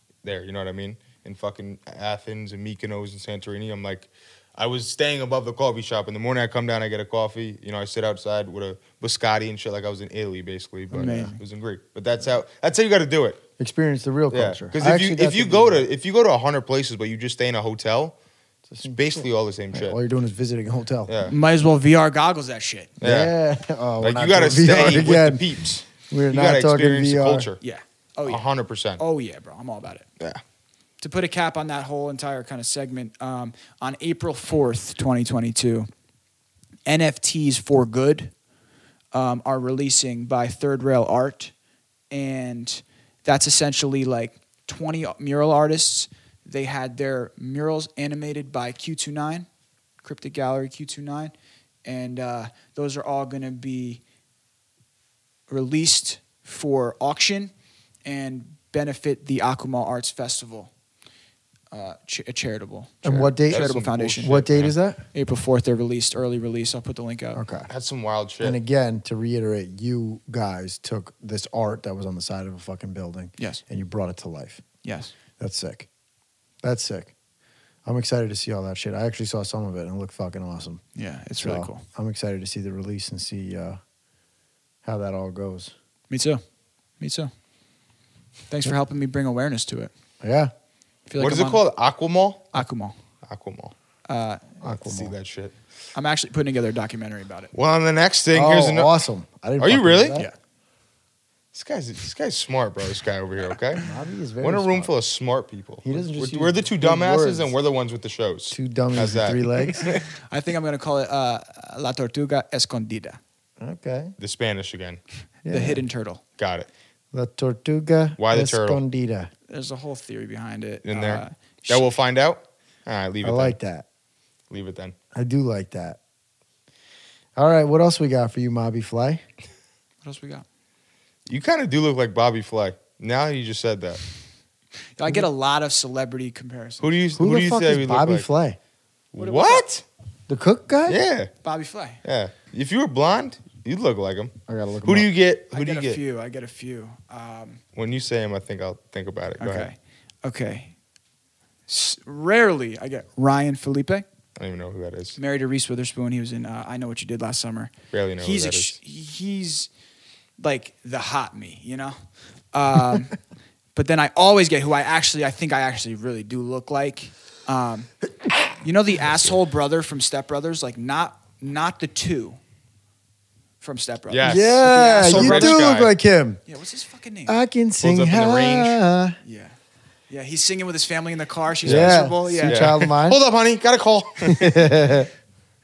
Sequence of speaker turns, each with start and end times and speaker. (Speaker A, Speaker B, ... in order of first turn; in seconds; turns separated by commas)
Speaker A: 0.2-13.4, Speaker B: 10.9-11.3, Speaker C: 11.0-11.3, Speaker C: 13.6-15.8, Speaker A: 14.3-18.1, Speaker C: 18.7-21.1, Speaker A: 18.8-20.0, Speaker A: 21.1-21.3, Speaker B: 21.2-22.9, Speaker A: 23.0-23.3, Speaker C: 23.0-27.5, Speaker A: 24.0-27.6, Speaker B: 24.7-25.1, Speaker B: 27.6-28.4, Speaker A: 28.2-29.0, Speaker B: 29.0-30.1, Speaker B: 31.0-35.9, Speaker B: 36.9-38.3, Speaker B: 39.1-41.5, Speaker B: 42.1-49.5, Speaker B: 50.0-51.3, Speaker B: 51.8-54.0, Speaker B: 55.5-57.5, Speaker B: 58.0-60.7, Speaker B: 61.7-64.4, Speaker C: 63.0-65.0, Speaker A: 63.5-64.7, Speaker B: 65.1-67.4, Speaker C: 67.3-67.7, Speaker A: 67.7-68.6, Speaker C: 68.4-74.6, Speaker B: 74.8-75.1, Speaker C: 75.4-75.9, Speaker C: 76.6-77.1, Speaker C: 77.8-80.8, Speaker B: 81.0-81.8, Speaker C: 81.4-83.8, Speaker C: 84.8-85.7, Speaker B: 86.1-86.4, Speaker B: 87.0-87.3, Speaker B: 88.5-89.9, Speaker C: 90.2-90.5, Speaker B: 91.1-91.6, Speaker A: 91.2-92.5, Speaker B: 92.5-93.0, Speaker A: 93.2-93.7, Speaker B: 94.1-94.6, Speaker C: 94.6-95.1, Speaker A: 94.7-95.5, Speaker B: 95.9-97.5, Speaker A: 97.5-98.9, Speaker C: 98.3-100.3, Speaker A: 99.6-100.2, Speaker A: 101.5-103.8, Speaker C: 103.8-104.9, Speaker A: 104.4-110.0, Speaker C: 105.8-107.5, Speaker C: 108.5-109.9, Speaker B: 110.3-113.2, Speaker C: 113.6-114.1, Speaker A: 114.2-115.0, Speaker C: 115.4-115.8, Speaker B: 115.5-116.2, Speaker A: 116.4-116.7, Speaker C: 117.1-119.3, Speaker A: 118.2-118.8, Speaker B: 119.5-121.8, Speaker A: 120.8-123.6, Speaker C: 123.2-123.8, Speaker A: 124.5-124.9, Speaker C: 125.1-126.0, Speaker C: 127.3-129.2, Speaker B: 130.0-130.4, Speaker A: 131.3-134.0, Speaker B: 134.9-137.0, Speaker A: 136.8-138.3, Speaker C: 137.2-138.6, Speaker A: 139.1-139.8, Speaker B: 139.2-139.6, Speaker C: 140.3-141.0, Speaker A: 140.9-141.3, Speaker B: 141.4-142.0, Speaker A: 142.0-146.0, Speaker C: 144.5-145.1, Speaker B: 145.5-147.6, Speaker A: 147.7-149.7, Speaker B: 149.4-150.7, Speaker B: 151.7-154.0, Speaker A: 154.3-155.2, Speaker B: 155.2-159.7, Speaker A: 157.9-158.8, Speaker B: 160.4-162.0, Speaker B: 162.5-163.2, Speaker B: 163.7-167.9, Speaker B: 168.6-172.4, Speaker B: 173.6-175.7, Speaker A: 174.1-175.9, Speaker C: 174.2-176.4, Speaker B: 176.4-177.4, Speaker C: 177.3-179.2, Speaker A: 177.8-178.8, Speaker B: 179.2-179.6, Speaker B: 180.1-182.7, Speaker C: 181.6-183.2, Speaker A: 181.6-184.8, Speaker C: 184.2-185.1